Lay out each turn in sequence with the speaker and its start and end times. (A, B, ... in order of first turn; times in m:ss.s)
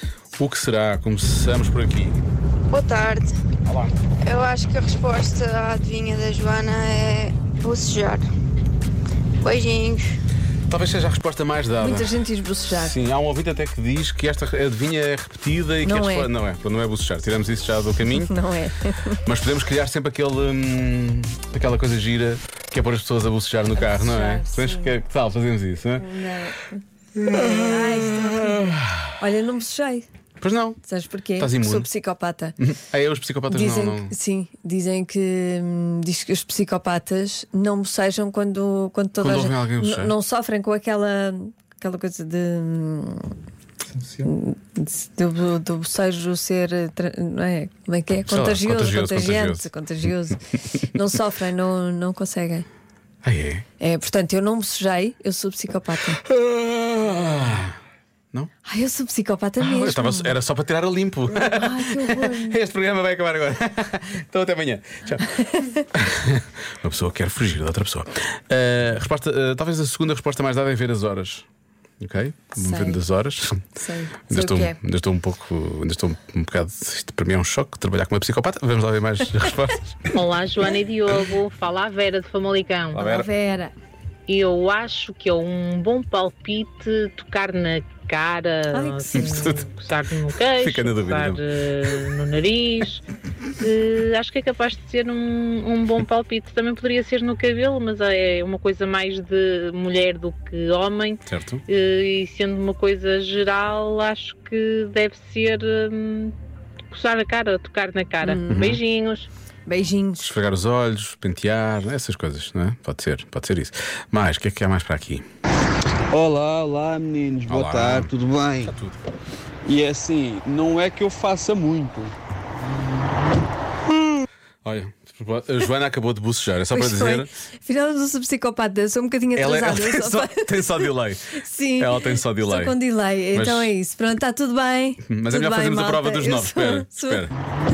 0:00.4-0:02.2 A
0:02.7-0:03.3 B
0:03.6-0:03.9 A
0:04.2-0:08.2 B
0:09.4-0:10.0 B
0:10.7-0:12.2 A
0:11.8-0:13.0 C
0:12.7-0:18.3 A
0:15.8-0:16.3 C
0:18.1-0:19.2 C
0:19.2-0:26.1 A
0:23.7-0:24.9 C
0:26.0-0:30.1 C
0:27.2-0:29.1 A
0:30.4-0:30.8 A
0:30.8-0:32.6 C
0:31.4-0:31.9 A
0:32.6-0:34.1 A
0:33.5-0:43.3 C
0:39.2-0:40.1 A
0:44.2-0:52.6 C
0:48.2-0:49.7 A
0:53.2-0:53.6 A
0:53.8-0:56.2 C
0:56.2-0:57.8 A
0:58.6-1:00.4 C
0:59.6-1:05.3 A
1:01.4-1:02.6 C
1:05.9-1:11.4 A
1:12.0-1:13.6 A
1:12.6-1:13.0 C
1:13.8-1:14.8 C
1:14.3-1:20.0 A
1:20.1-1:23.1 D
1:22.9-1:23.3 A
1:23.0-1:23.7 C
1:24.3-1:33.0 D
1:28.7-1:29.4 C
1:29.1-1:29.6 A
1:30.6-1:31.4 A
1:33.6-1:46.3 D
1:41.2-1:41.6 A
1:46.9-1:49.3 D
1:48.2-1:48.8 C
1:48.5-1:48.8 A
1:49.6-1:50.3 C
1:50.2-1:55.2 A
1:56.1-1:58.7 E
1:57.5-1:58.1 A
1:58.6-1:59.0 A
1:59.6-2:02.1 E
2:04.6-2:07.3 A
2:06.7-2:17.2 C
2:09.3-2:12.8 A
2:13.3-2:13.7 A
2:15.0-2:17.3 A